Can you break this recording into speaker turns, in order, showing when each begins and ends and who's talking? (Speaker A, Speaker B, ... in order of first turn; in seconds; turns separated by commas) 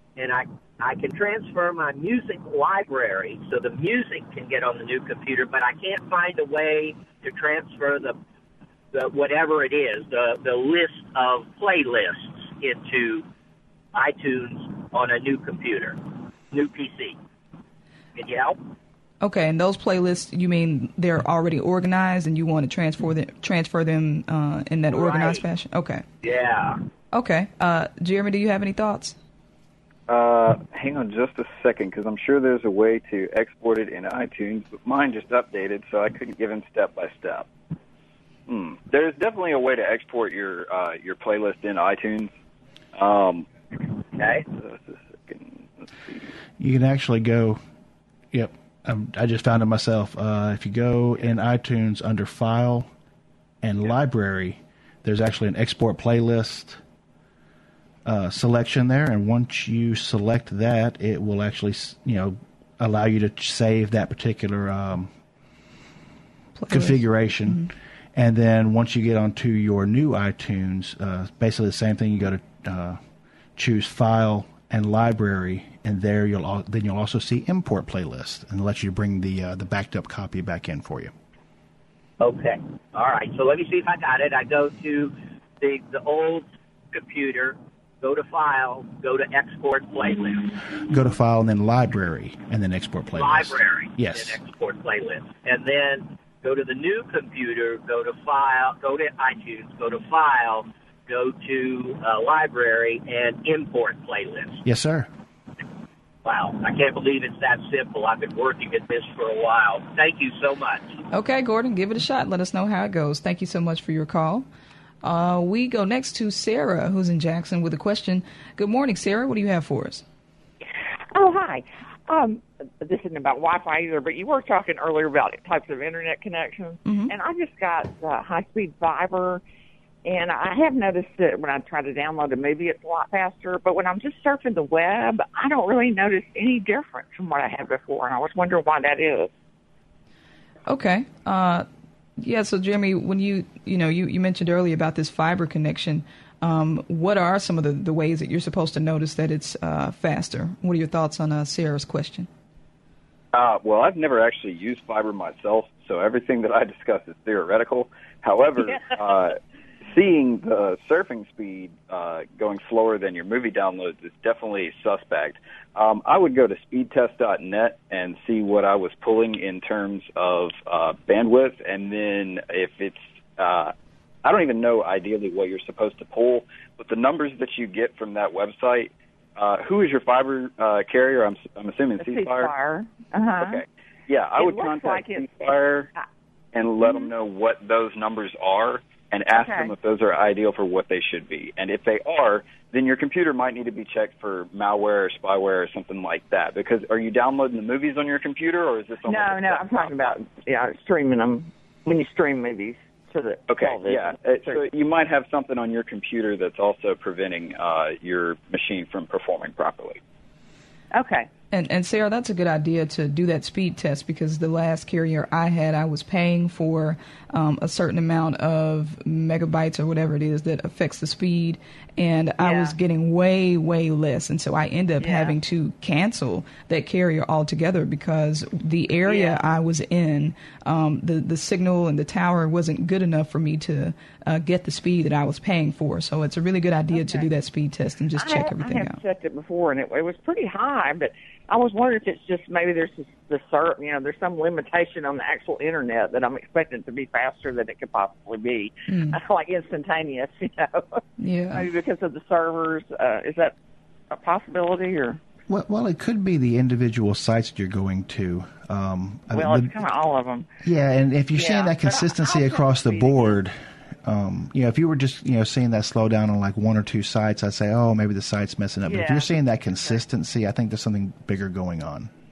Speaker A: 0.2-8.2, Speaker A: 8.9-13.2, Speaker A: 13.9-16.0, Speaker A: 16.5-17.2, Speaker A: 18.2-18.6, Speaker B: 19.2-26.0, Speaker A: 24.9-25.4, Speaker A: 26.2-26.8, Speaker B: 27.1-29.2, Speaker C: 30.1-37.5, Speaker C: 38.5-42.3, Speaker C: 43.0-43.5, Speaker A: 44.2-44.4, Speaker C: 44.5-46.3, Speaker D: 46.6-47.6, Speaker D: 48.3-52.9, Speaker D: 53.6-56.8, Speaker D: 58.0-65.1, Speaker B: 66.6-67.7, Speaker D: 66.7-73.0, Speaker D: 73.6-81.1, Speaker A: 82.2-90.6, Speaker D: 90.9-94.4, Speaker A: 93.1-104.6, Speaker D: 104.6-105.1, Speaker A: 106.2-111.0, Speaker B: 111.1-114.5, Speaker B: 115.0-120.0, Speaker E: 121.1-129.4, Speaker B: 126.8-127.1, Speaker E: 130.1-139.3, Speaker B: 140.7-141.7, Speaker B: 142.2-152.3, Speaker C: 153.3-173.7, Speaker C: 174.2-182.5, Speaker E: 182.0-183.6, Speaker C: 183.4-185.9, Speaker E: 184.4-186.0, Speaker C: 186.5-200.2, Speaker E: 186.8-187.1, Speaker E: 189.3-189.7, Speaker E: 199.0-204.7, Speaker C: 203.5-210.0, Speaker E: 210.9-211.3, Speaker B: 211.5-239.0, Speaker E: 222.4-222.8, Speaker E: 225.0-225.4, Speaker E: 229.1-229.5, Speaker E: 236.9-237.3, Speaker E: 238.2-253.6, Speaker B: 248.9-249.2, Speaker B: 251.2-251.7, Speaker E: 254.1-255.2, Speaker D: 255.5-259.7, Speaker E: 259.3-260.5, Speaker D: 260.6-272.1, Speaker E: 261.3-263.4, Speaker E: 268.9-269.3